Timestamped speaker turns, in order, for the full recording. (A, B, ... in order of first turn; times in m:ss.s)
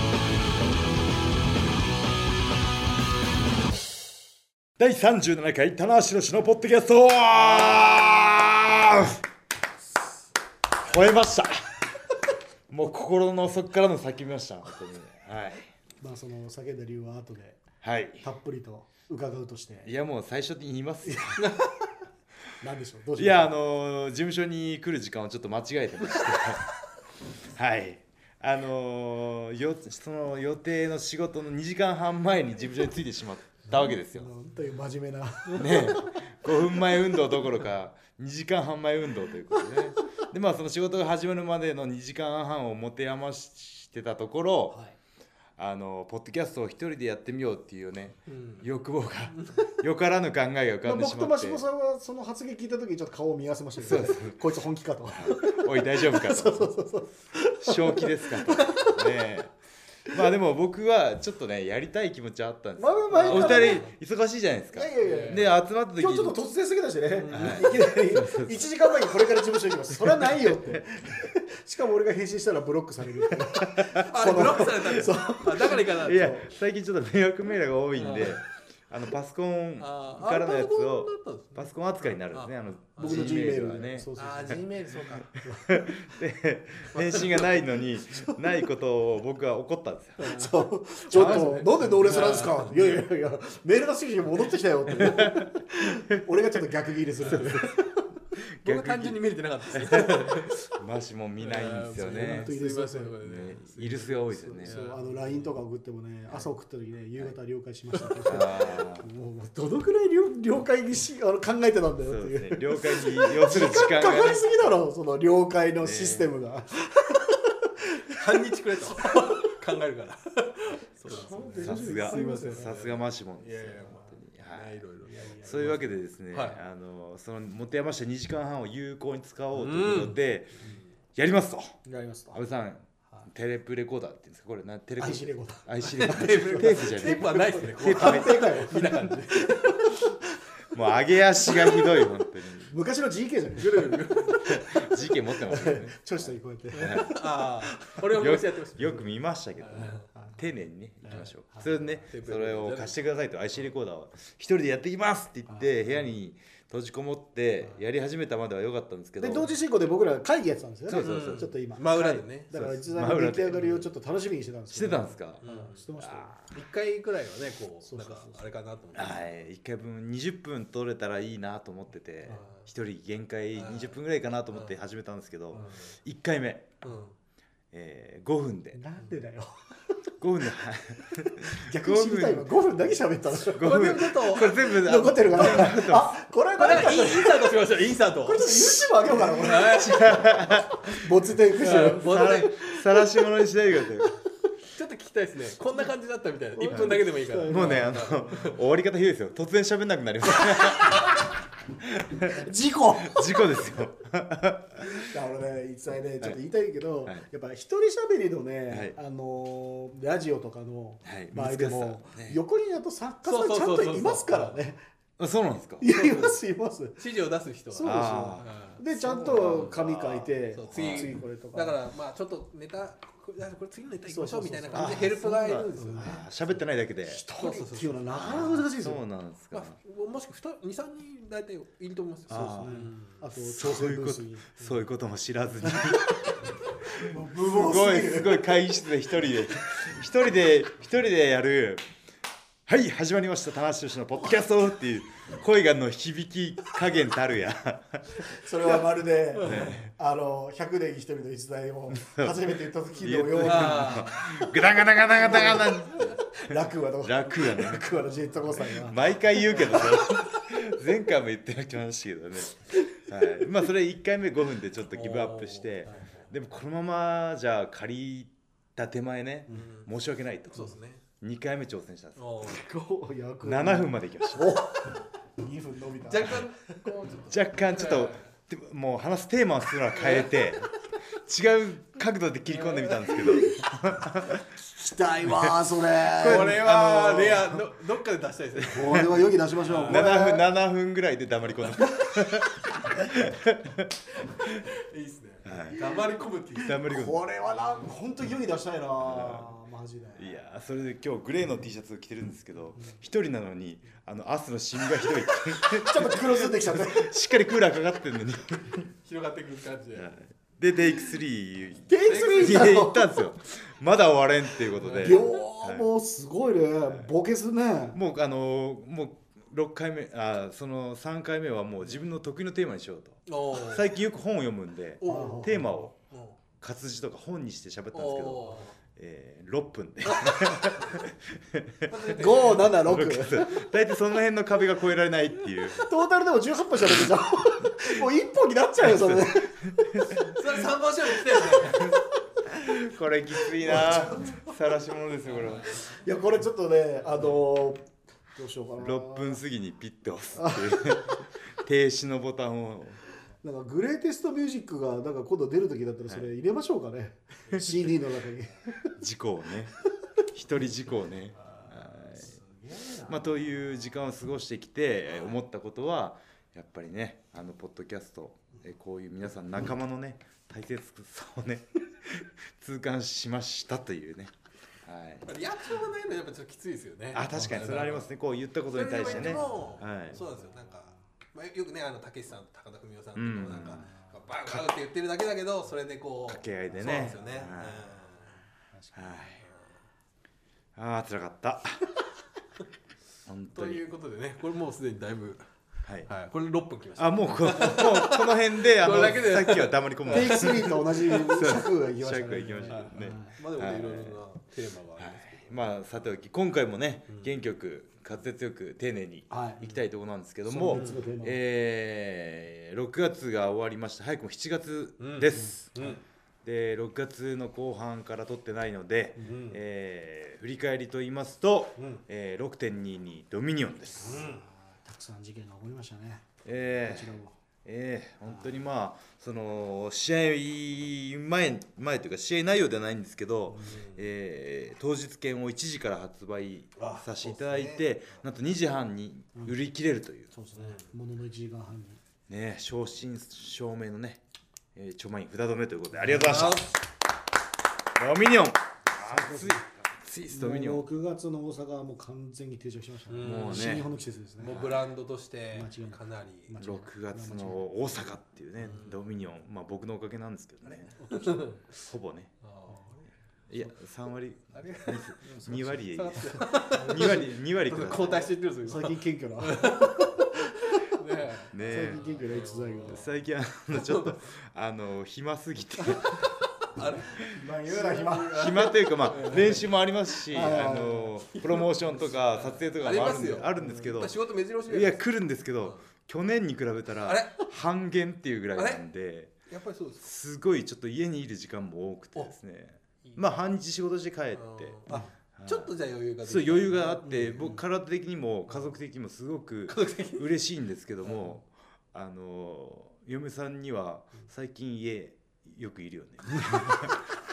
0:04.8-0:09.2 A
0:10.8-0:11.6 A
0:12.7-0:15.7 A
0:16.0-0:17.6 B
0:17.8-0:18.3 A
0:18.2-0:19.9 B
0:19.8-0:21.5 A
0:21.1-0:21.4 B
0:21.4-0:21.7 C
0:22.6-0:23.5 B
0:23.2-0:26.7 A
0:27.4-0:34.3 A
0:34.0-0:36.1 B
0:35.6-0:44.8 A
0:45.6-0:51.6 A
0:48.3-0:48.7 C
0:49.3-0:49.6 C
0:50.8-0:59.2 B
0:53.8-0:54.4 A
0:55.1-0:56.7 A
0:57.6-0:59.5 A
1:00.1-1:06.4 A
1:02.8-1:03.9 B
1:03.1-1:03.9 C
1:04.7-1:16.5 B
1:05.0-1:05.5 C
1:07.2-1:07.8 C
1:07.3-1:08.9 A
1:10.0-1:10.8 A
1:13.3-1:24.6 A
1:14.0-1:16.4 C
1:18.0-1:18.4 C
1:19.8-1:25.4 C
1:23.0-1:24.8 B
1:25.2-1:30.4 A
1:25.4-1:25.9 B
1:26.9-1:27.6 C
1:30.2-1:38.1 B
1:31.1-1:31.8 A
1:31.1-1:32.7 C
1:35.0-1:35.4 A
1:37.2-1:37.7 C
1:37.3-1:37.7 A
1:38.6-1:42.5 A
1:38.6-1:40.6 C
1:41.4-1:45.5 C
1:42.1-1:43.2 B
1:43.2-1:44.8 A
1:44.4-1:58.4 B
1:48.0-1:48.2 C
1:48.3-1:49.1 A
1:52.1-1:54.5 A
1:55.8-1:56.3 A
1:58.2-2:06.6 C
2:01.0-2:02.7 B
2:01.6-2:04.8 A
2:05.0-2:05.9 B
2:05.4-2:10.6 A
2:09.6-2:10.8 C
2:11.2-2:11.8 A
2:11.8-2:12.4 B
2:12.3-2:19.1 A
2:15.0-2:20.2 B
2:15.9-2:19.9 C
2:20.7-2:22.7 A
2:22.7-2:28.0 B
2:23.6-2:24.4 C
2:24.5-2:27.2 A
2:26.8-2:29.1 C
2:28.0-2:39.5 A
2:29.6-2:30.1 C
2:32.1-2:33.0 C
2:39.2-2:46.6 B
2:40.9-2:43.7 A
2:41.0-2:42.5 C
2:43.5-2:43.9 C
2:44.7-2:45.5 A
2:45.4-2:45.8 C
2:46.0-2:46.3 A
2:46.5-2:49.3 C
2:47.9-2:48.4 B
2:48.9-2:56.8 A
2:52.3-2:52.7 C
2:53.6-2:54.0 C
2:55.6-2:55.9 C
2:56.8-2:57.1 C
2:57.7-2:58.8 A
2:58.8-2:59.6 B
3:00.2-3:02.6 A
3:01.1-3:07.6 B
3:03.5-3:06.2 A
3:03.6-3:04.7 C
3:06.6-3:10.2 C
3:08.2-3:13.2 B
3:09.2-3:11.1 A
3:11.6-3:12.5 C
3:11.9-3:14.2 A
3:14.7-3:18.6 C
3:16.6-3:18.5 B
3:16.7-3:21.1 A
3:20.8-3:21.1 B
3:21.8-3:22.4 A
3:22.2-3:23.4 B
3:23.0-3:25.1 A
3:24.9-3:34.8 B
3:28.7-3:29.0 A
3:31.0-3:32.4 A
3:33.3-3:34.6 C
3:35.2-3:35.9 A
3:35.8-3:37.0 B
3:35.9-3:36.3 C
3:37.0-3:46.2 C
3:37.7-3:41.8 B
3:37.8-3:38.6 A
3:39.3-3:40.0 A
3:40.7-3:41.1 A
3:44.1-3:46.2 B
3:44.8-3:47.2 A
3:47.1-3:49.0 B
3:47.4-3:48.2 C
3:48.2-3:49.8 A
3:49.5-3:53.2 C
3:52.3-3:56.4 A
3:52.3-3:54.4 B
3:54.6-3:54.9 C
3:55.6-3:56.0 B
3:56.9-3:58.6 B
3:57.0-4:01.8 A
4:02.7-4:08.2 A
4:08.2-4:14.3 B
4:09.4-4:09.8 C
4:09.4-4:09.9 A
4:11.9-4:17.9 A
4:13.4-4:14.3 C
4:15.2-4:20.2 B
4:18.5-4:32.6 A
4:24.9-4:26.3 C
4:29.5-4:29.9 C
4:30.5-4:31.0 C
4:32.2-4:32.6 C
4:32.5-4:36.5 B
4:33.4-4:34.6 A
4:36.1-4:38.3 C
4:37.3-4:44.4 A
4:39.9-4:41.0 C
4:42.5-4:43.4 C
4:44.6-4:46.6 B
4:46.1-4:47.7 A
4:46.2-4:50.1 C
4:48.6-4:49.1 A
4:48.7-4:50.5 B
4:49.9-4:54.6 A
4:54.8-4:56.8 C
4:55.4-4:55.8 A
4:56.6-4:57.2 A
4:56.9-5:00.4 B
4:59.0-4:59.5 A
5:00.2-5:08.9 A
5:05.6-5:07.1 B
5:09.0-5:10.1 C
5:10.0-5:15.9 A
5:11.9-5:13.2 B
5:12.1-5:12.9 C
5:14.8-5:15.3 C
5:15.0-5:18.0 B
5:17.9-5:25.9 A
5:23.3-5:23.9 C
5:25.0-5:26.4 C
5:25.0-5:25.7 B
5:26.6-5:32.0 A
5:27.9-5:28.8 C
5:30.0-5:31.0 C
5:31.9-5:32.8 C
5:32.1-5:33.6 B
5:32.8-5:35.8 A
5:35.8-5:40.6 B
5:38.9-5:40.2 A
5:40.2-5:41.9 C
5:41.2-5:42.0 B
5:41.8-5:45.8 A
5:43.6-5:44.5 B
5:45.3-5:46.0 C
5:45.8-5:49.4 B
5:48.8-5:53.0 A
5:50.4-5:51.0 B
5:53.4-5:58.9 B
5:57.5-5:58.0 A
5:58.9-6:02.3 A
6:02.6-6:03.2 B
6:03.0-6:14.3 A
6:14.8-6:15.3 A
6:15.3-6:18.1 C
6:17.1-6:20.2 A
6:17.3-6:17.6 B
6:18.7-6:28.4 C
6:19.6-6:20.7 B
6:23.2-6:23.9 A
6:23.8-6:24.1 B
6:24.5-6:24.7 A
6:26.3-6:28.0 A
6:26.8-6:27.4 B
6:28.7-6:29.3 B
6:29.0-6:29.4 A
6:29.4-6:29.7 C
6:30.8-6:31.8 A
6:33.3-6:33.8 A
6:33.6-6:35.4 C
6:36.1-6:41.2 C
6:37.0-6:44.2 A
6:40.1-6:43.4 B
6:42.7-6:45.6 C
6:45.0-6:55.7 A
6:49.3-6:49.7 B
6:50.5-6:51.4 B
6:50.7-6:51.1 C
6:55.0-6:56.0 C
6:55.4-6:55.9 B
6:56.4-7:04.3 A
6:59.2-6:59.5 B
6:59.2-6:59.6 C
7:04.0-7:06.3 B
7:04.0-7:04.4 C
7:06.4-7:20.3 A
7:06.8-7:07.4 B
7:13.5-7:14.0 C
7:16.8-7:18.2 C
7:20.3-7:22.0 B
7:20.6-7:20.9 C
7:22.3-7:24.2 A
7:24.8-7:26.7 A
7:26.0-7:26.4 B
7:26.0-7:26.8 C
7:28.0-7:30.9 A
7:28.9-7:29.6 B
7:30.3-7:34.6 B
7:33.1-7:33.8 C
7:33.2-7:33.9 A
7:34.4-7:36.5 C
7:34.5-7:34.8 A
7:35.5-7:37.6 B
7:36.6-7:42.3 A
7:38.6-7:39.0 C
7:41.0-7:41.7 C
7:42.4-7:42.9 C
7:42.7-7:43.0 B
7:43.5-7:48.3 A
7:44.5-7:50.3 C
7:46.7-7:47.2 B
7:48.6-7:51.0 B
7:50.8-7:53.1 C
7:51.5-7:52.0 A
7:51.6-7:53.1 B
7:52.8-7:56.3 A
7:53.7-7:54.2 C
7:55.9-7:59.7 C
7:56.8-7:59.6 B
7:58.3-8:09.3 A
8:00.3-8:05.0 C
8:00.3-8:01.1 B
8:07.0-8:07.5 C
8:08.6-8:08.8 C
8:09.5-8:10.1 C
8:10.0-8:14.8 A
8:14.3-8:17.5 C
8:15.4-8:15.7 A
8:16.2-8:27.0 A
8:17.0-8:17.6 B
8:19.7-8:20.3 C
8:21.1-8:21.3 C